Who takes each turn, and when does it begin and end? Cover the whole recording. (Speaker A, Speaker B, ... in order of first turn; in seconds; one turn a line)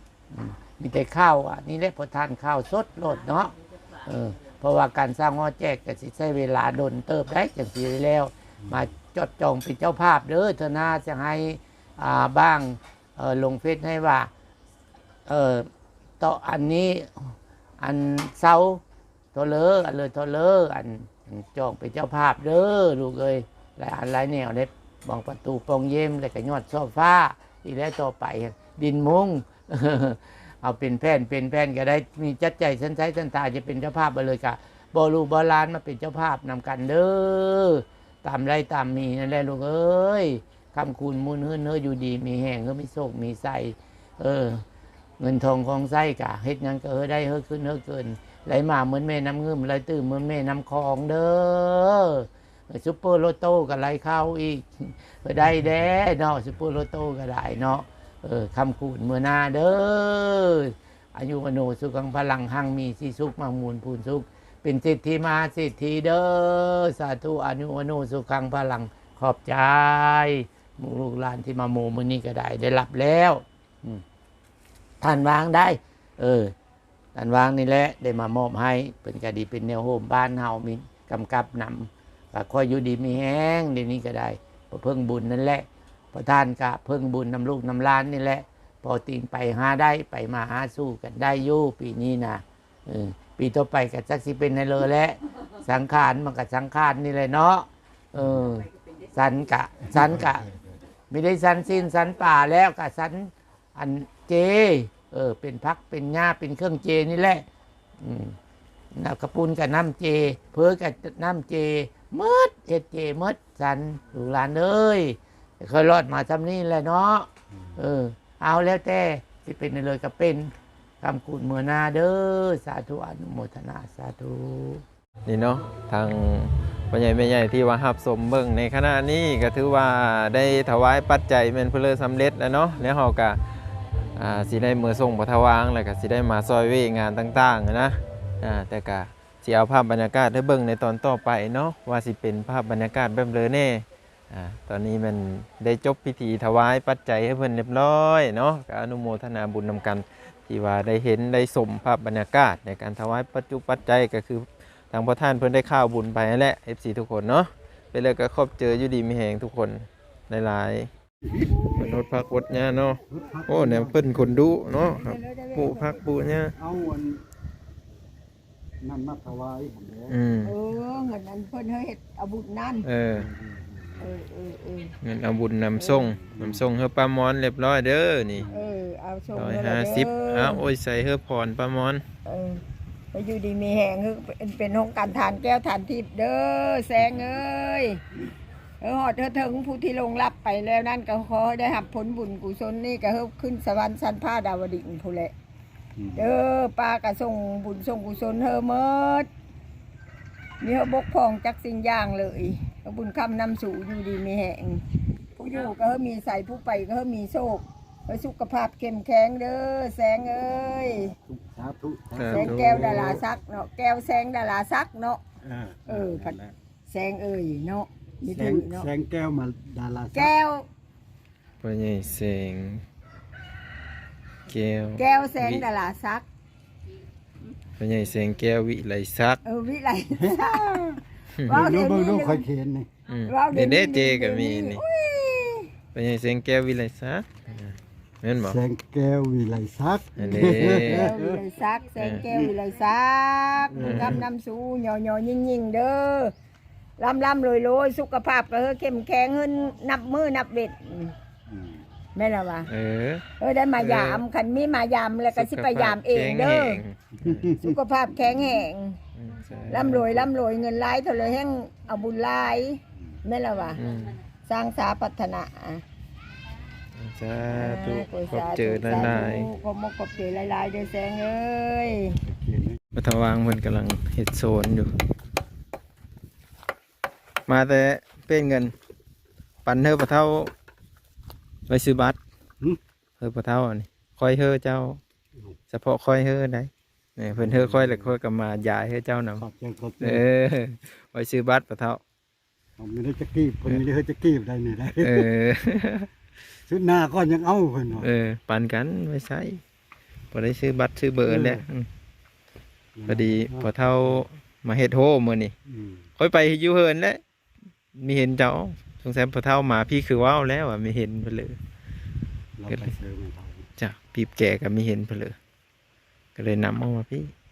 Speaker A: 0.3-14.3
Speaker B: 8.6-8.9
Speaker A: 15.3-18.8
Speaker A: 19.3-44.6
Speaker A: 45.2-74.0
Speaker A: 75.0-76.5
Speaker A: 77.2-100.5
Speaker A: 101.1-107.5
Speaker A: 108.0-108.4
Speaker A: 109.0-120.5
Speaker A: 121.0-124.8
Speaker C: 125.3-133.4
Speaker C: 134.2-160.9
Speaker C: 161.7-166.6
Speaker B: 163.1-164.6
Speaker D: 164.8-166.0
Speaker B: 166.6-167.2
Speaker B: 168.8-170.5
Speaker C: 170.1-170.6
Speaker D: 170.4-172.9
Speaker C: 172.8-173.3
Speaker B: 173.1-174.1
Speaker D: 174.0-174.9
Speaker C: 175.0-178.4
Speaker B: 176.2-176.7
Speaker B: 178.4-178.7
Speaker D: 178.5-180.7
Speaker C: 179.3-182.0
Speaker D: 182.2-188.0
Speaker B: 187.0-187.4
Speaker D: 188.8-195.3
Speaker B: 196.0-196.3
Speaker D: 196.2-199.3
Speaker D: 200.6-204.8
Speaker D: 205.4-211.1
Speaker B: 211.2-213.2
Speaker C: 212.2-213.2
Speaker D: 212.3-215.2
Speaker B: 215.4-216.5
Speaker D: 215.9-218.9
Speaker B: 218.3-220.3
Speaker D: 220.1-220.7
Speaker C: 221.6-222.8
Speaker C: 224.5-225.7
Speaker D: 225.0-226.3
Speaker C: 227.8-229.4
Speaker D: 229.4-232.5
Speaker B: 230.1-232.9
Speaker C: 231.4-231.7
Speaker C: 233.1-234.8
Speaker D: 233.3-235.7
Speaker C: 235.9-238.6
Speaker B: 238.4-241.4
Speaker C: 240.2-241.1
Speaker D: 240.3-246.3
Speaker C: 242.0-242.3
Speaker B: 243.7-244.3
Speaker C: 243.8-244.2
Speaker D: 247.0-251.2
Speaker B: 251.5-251.8
Speaker D: 252.2-252.7
Speaker C: 252.7-253.2
Speaker D: 253.4-256.8
Speaker C: 253.8-254.2
Speaker C: 255.3-257.5
Speaker B: 257.2-257.7
Speaker D: 257.6-259.0
Speaker C: 259.1-260.2
Speaker D: 259.7-263.8
Speaker C: 263.8-264.2
Speaker D: 264.4-265.8
Speaker C: 267.0-269.5
Speaker D: 267.5-272.2
Speaker B: 272.2-272.8
Speaker C: 272.9-275.0
Speaker C: 277.5-278.7
Speaker C: 279.6-280.5
Speaker C: 281.7-282.2
Speaker C: 283.2-285.0
Speaker C: 285.7-289.5
Speaker B: 287.3-288.2
Speaker B: 289.4-290.2
Speaker C: 290.0-292.0
Speaker B: 292.8-295.3
Speaker C: 295.0-296.1
Speaker B: 296.7-298.1
Speaker C: 298.0-299.6
Speaker C: 300.3-301.9
Speaker B: 301.2-301.6
Speaker B: 302.9-304.2
Speaker C: 303.1-305.5
Speaker B: 305.7-306.0
Speaker C: 306.2-307.2
Speaker C: 307.9-311.6
Speaker B: 312.6-313.7
Speaker C: 313.8-315.4
Speaker C: 316.4-317.3